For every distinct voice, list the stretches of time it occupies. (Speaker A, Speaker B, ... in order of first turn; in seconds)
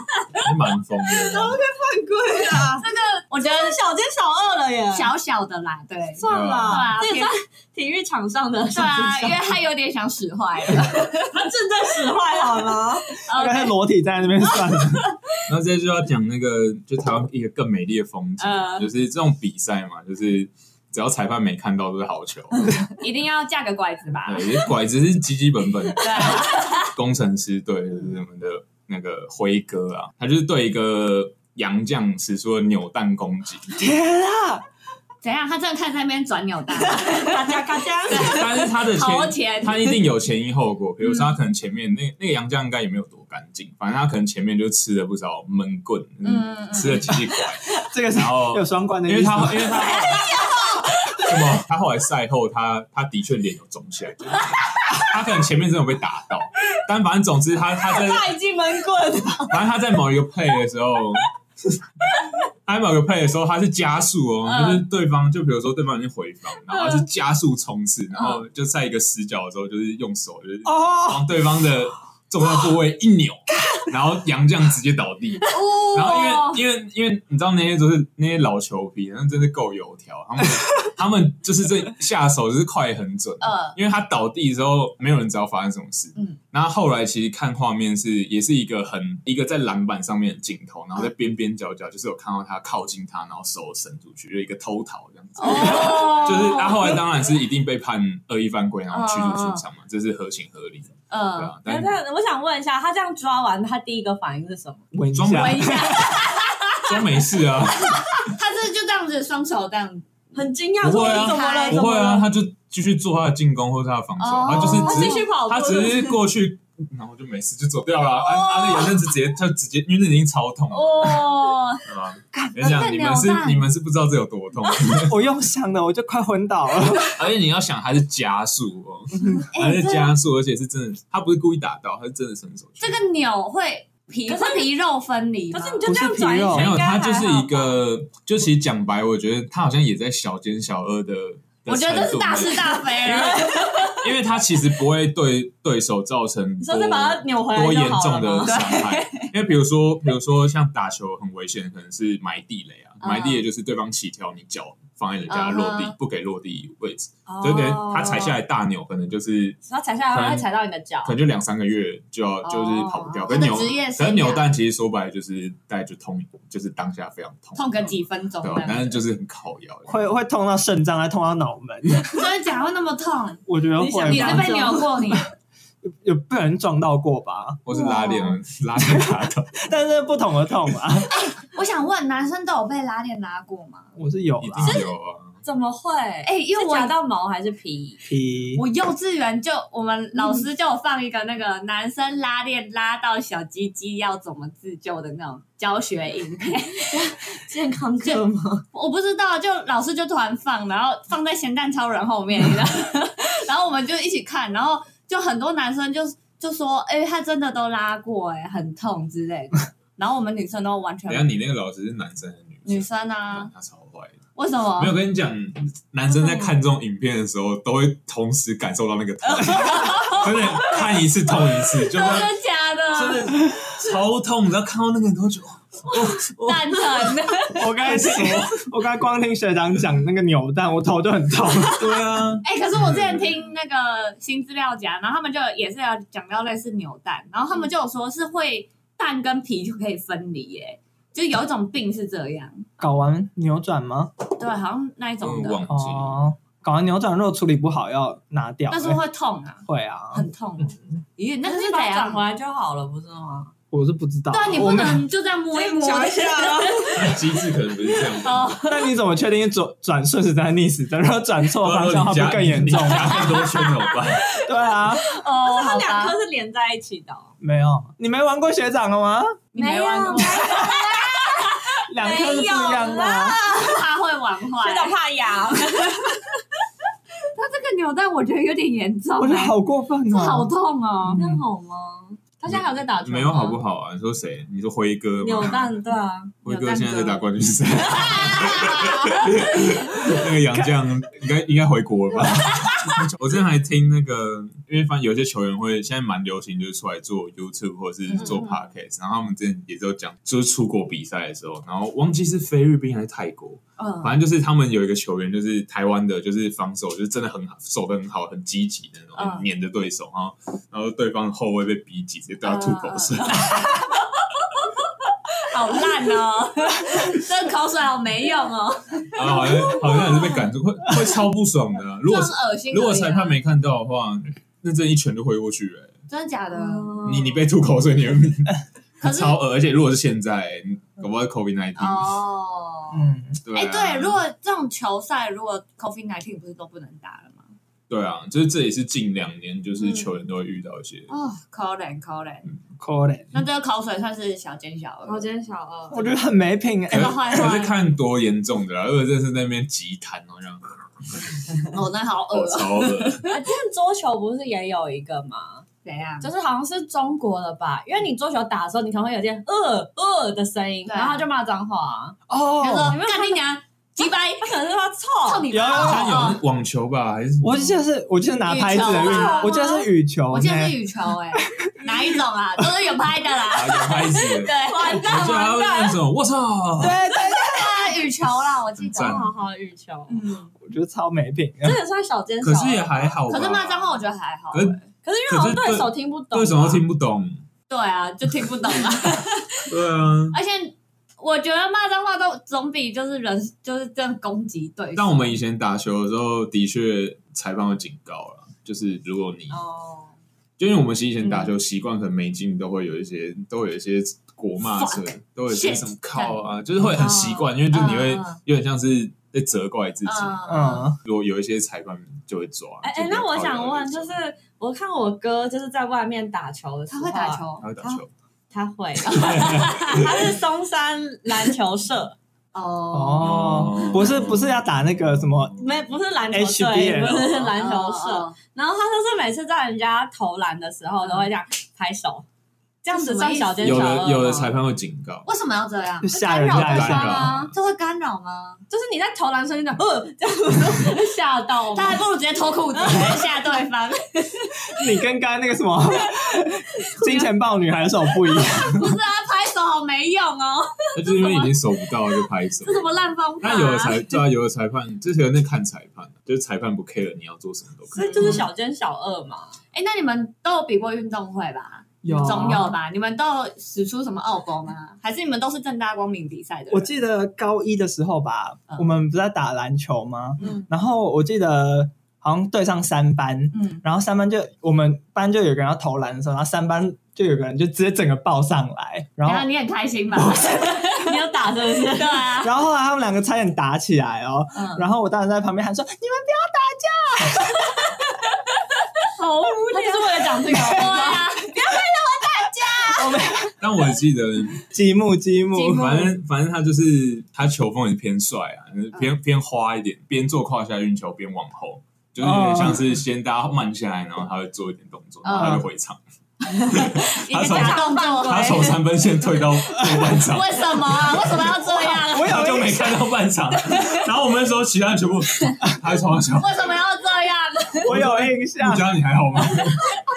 Speaker A: 0.4-1.6, 6.3-6.9, 15.5-22.7, 24.2-33.9, 38.2-50.2, 51.2-58.3, 59.5-61.3, 62.6-101.9, 105.1-106.1, 106.8-108.2, 110.8-121.3, 121.8-125.2, 127.2-133.0, 136.5-159.6, 160.1-160.5, 161.0-170.0, 177.7-179.6, 184.4-185.4, 211.1-214.2, 214.8-222.3, 222.9-227.1, 231.8-233.3, 245.2-246.2, 256.9-258.5, 261.6-264.3, 282.5-285.7, 286.4-313.7, 319.1-325.9, 327.0-332.2, 333.4-334.2, 337.9-341.1, 346.9-351.4, 352.3-353.3, 365.8-367.8, 373.5-377.0, 378.8-379.3, 382.4-384.8, 385.3-387.4, 389.7-390.4, 394.9-399.6, 400.6-414.1, 417.6-418.1, 419.1-420.1, 423.2-424.4, 433.6-435.3, 436.5-437.5, 450.9-458.4, 493.6-494.6, 495.6-506.0, 506.5-516.8, 517.9-520.0
Speaker B: 1.2-2.9, 3.4-5.1, 6.2-9.4, 11.3-13.2, 36.8-38.7, 49.8-51.2, 57.8-59.6, 101.6-104.8, 110.3-112.3, 114.5-116.2, 134.3-134.7, 135.5-137.8, 143.2-144.0, 146.6-148.6, 157.3-158.4, 159.7-161.2, 162.8-163.3, 173.8-174.9, 184.6-188.0, 196.9-198.7, 251.4-253.5, 255.5-257.2, 264.9-267.3, 269.6-273.8, 274.6-276.2, 281.1-283.6, 285.2-286.5, 287.8-289.2, 326.5-327.4, 345.1-346.1, 353.3-355.7, 356.2-362.2, 362.9-363.4, 364.4-365.5, 368.8-369.6, 374.6-376.0, 378.9-380.2, 381.6-383.1, 385.0-386.8, 399.5-400.1, 412.8-422.2, 425.6-432.2, 432.8-434.6, 436.1-437.5, 438.7-442.0, 442.8-443.3, 457.9-459.6, 462.1-462.6, 480.6-482.3, 489.7-493.2, 506.7-508.8
Speaker C: 2.8-3.8, 4.9-7.3, 8.7-11.4, 13.2-13.8, 18.4-18.9, 23.0-24.7, 26.0-26.9, 35.2-37.6, 38.1-40.0, 41.0-41.3, 46.2-47.3, 64.5-64.8, 75.5-76.6, 83.4-83.8, 95.4-96.9, 98.9-99.7, 101.1-101.5, 105.3-107.2, 107.8-110.1, 110.9-111.9, 114.2-115.3, 118.4-118.8, 120.7-123.7, 129.5-130.1, 132.8-135.8, 141.7-144.0, 148.5-149.3, 153.0-153.4, 155.3-155.9, 162.5-164.5, 167.6-169.0, 172.1-173.4, 174.1-175.3, 177.7-178.3, 181.1-183.9, 186.2-186.9, 188.6-197.2, 198.0-211.3, 212.7-213.5, 214.4-214.9, 219.3-221.0, 221.5-223.4, 225.9-228.2, 232.4-242.7, 244.4-245.7, 248.7-252.2, 254.3-257.2, 258.1-258.9, 265.0-266.2, 269.5-271.7, 273.4-274.9, 277.3-279.6, 280.1-281.2, 286.5-287.2, 288.5-289.1, 298.1-298.6, 303.8-304.2, 309.2-309.4, 312.4-314.6, 315.3-320.4, 322.1-323.4, 326.1-327.0, 329.0-329.4, 331.8-337.5, 339.8-340.1, 341.1-342.5, 343.3-345.3, 346.9-347.8, 351.7-353.3, 355.8-356.3, 360.9-361.2, 362.6-364.5, 365.2-366.4, 368.4-375.1, 377.1-379.2, 380.1-380.5, 383.3-384.8, 387.7-389.7, 390.3-395.4, 401.2-401.5, 404.8-408.4, 410.1-410.9, 416.9-417.7, 419.3-419.7, 422.5-423.9, 427.5-428.4, 432.9-433.9, 435.2-436.9, 437.5-438.6, 441.7-444.5, 448.6-451.6, 452.6-454.0, 458.0-458.5, 459.7-466.9, 473.5-473.8, 479.2-481.2, 481.9-482.5, 484.5-484.8, 489.2-491.7, 495.6-496.1, 505.2-505.6, 506.7-508.8, 510.1-512.6, 516.4-517.9
Speaker D: 13.3-15.1, 33.8-34.6, 47.7-49.9, 70.7-71.3, 104.9-106.2, 125.0-127.2, 135.8-136.8, 169.9-172.3, 173.5-175.2, 175.8-177.6, 178.8-181.2, 184.0-184.8, 188.0-188.6, 227.6-231.9, 242.8-244.1, 245.7-249.0, 249.7-250.2, 253.7-255.1, 258.6-263.4, 264.3-265.1, 267.4-269.4, 270.2-270.8, 271.8-273.4, 279.2-280.5, 281.1-281.4, 332.9-333.4, 342.8-343.3, 345.9-347.2, 362.3-363.0, 365.5-366.1, 367.4-370.8, 371.4-372.1, 376.8-378.0, 380.6-381.8, 410.5-411.0, 422.9-425.6, 426.3-427.5, 436.0-437.3, 444.7-449.0, 462.0-462.7, 466.7-479.5, 480.2-480.4, 482.4-487.7, 490.6-491.0, 492.9-493.6, 494.6-496.1, 502.2-502.9, 505.4-505.6, 509.7-510.1, 511.9-513.0, 517.8-518.9